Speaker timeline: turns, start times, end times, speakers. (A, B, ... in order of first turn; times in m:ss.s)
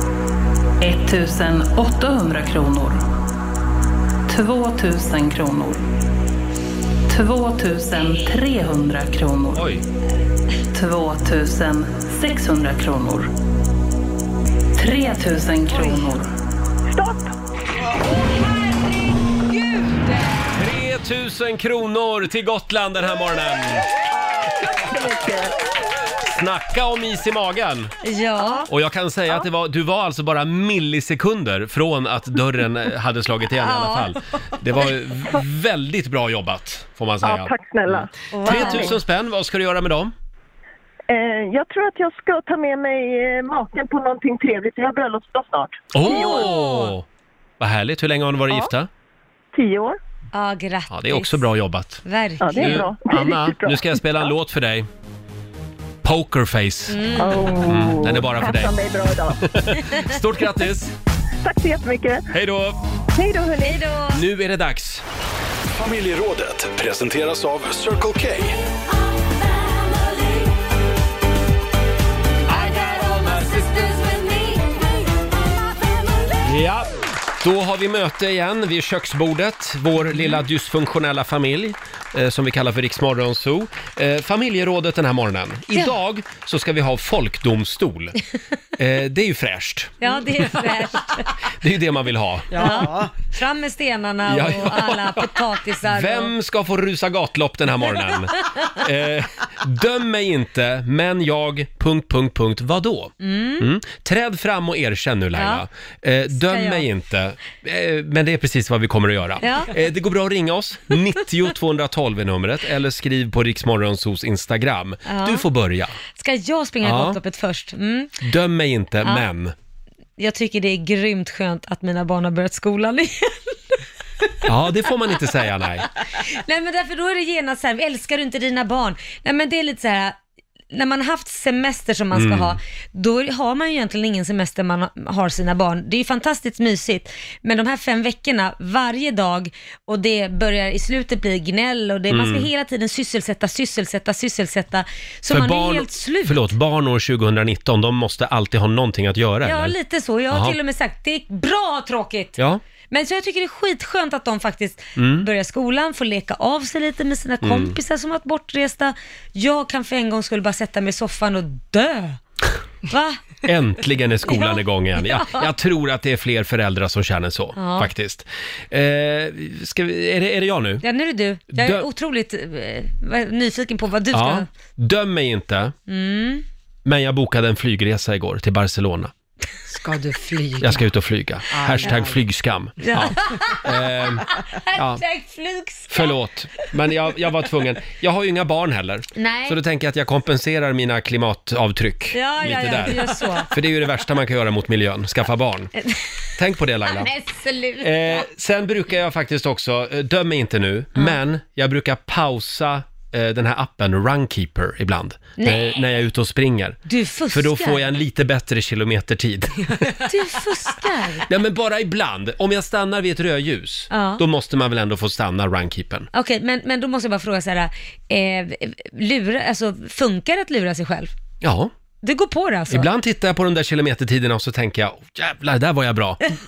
0:00.8-0:03.0 A
0:04.3-0:05.9 A
0:07.1-0:09.7 A
0:09.5-0:09.8 B
0:10.7-0:13.3 A
0:14.8-0:16.3 A
0:16.9-0:17.3 C
0:20.5-0:23.9 B
0:24.8-0:25.5 C
0:26.3-0:27.9 B
0:28.0-0:28.7 D
0:28.7-0:40.1 B
0:33.6-0:34.2 D
0:37.2-0:39.0 C
0:38.3-0:39.0 D
0:41.1-0:46.5 C
0:45.9-0:47.1 B
0:46.0-0:46.9 D
0:47.6-0:48.9 B
0:49.5-0:50.0 C
0:50.3-0:51.4 D
0:50.9-0:52.0 B
0:52.0-0:52.8 D
0:52.4-0:54.3 C
0:52.6-0:54.9 B
0:56.0-0:57.0 B
0:56.9-0:57.5 D
0:57.2-0:59.4 C
0:57.7-0:58.8 B
0:59.4-1:00.9 B
1:01.4-1:02.2 C
1:02.3-1:02.8 B
1:03.1-1:03.8 C
1:03.6-1:04.2 D
1:04.1-1:05.0 B
1:05.7-1:08.6 E
1:12.5-1:14.1 B
1:16.4-1:28.2 B
1:28.8-1:30.0 B
1:30.0-1:31.3 D
1:31.6-1:32.9 B
1:32.5-1:33.1 F
1:32.6-1:36.3 D
1:34.3-1:56.0 B
1:43.2-1:43.6 D
1:45.4-1:45.6 D
1:46.3-1:46.8 D
1:49.4-1:49.7 D
1:55.1-1:55.5 D
1:56.1-1:58.2 D
1:56.8-1:57.2 B
1:58.2-1:59.5 B
2:00.2-2:03.6 D
2:04.4-2:05.9 B
2:06.2-2:10.2 D
2:10.7-2:26.5 D
2:12.1-2:12.6 B
2:22.1-2:22.5 B
2:25.3-2:29.8 B
2:29.4-2:32.4 D
2:30.3-2:30.6 B
2:32.9-2:42.2 D
2:35.0-2:35.3 B
2:37.4-2:37.8 B
2:42.9-2:43.2 D
2:43.4-2:50.8 B
2:44.3-2:45.5 D
2:47.6-2:47.9 D
2:50.8-2:54.5 D
2:51.5-2:51.9 B
2:54.1-2:55.8 B
2:55.9-2:56.4 D
2:56.8-2:59.1 B
2:59.7-3:00.9 F
3:00.6-3:05.0 B
3:01.5-3:02.2 F
3:02.8-3:03.7 D
3:04.4-3:06.2 D
3:05.9-3:15.7 B
3:09.2-3:09.6 D
3:12.1-3:13.5 D
3:16.4-3:17.1 B
3:16.9-3:18.3 D
3:17.8-3:26.8 B
3:25.4-3:25.8 D
3:26.9-3:27.8 D
3:27.3-3:30.0 B
3:30.1-3:31.3 D
3:31.3-3:36.1 B
3:33.9-3:34.2 D
3:36.1-3:41.1 D
3:41.4-3:41.7 B
3:42.0-3:42.9 D
3:42.7-3:46.2 B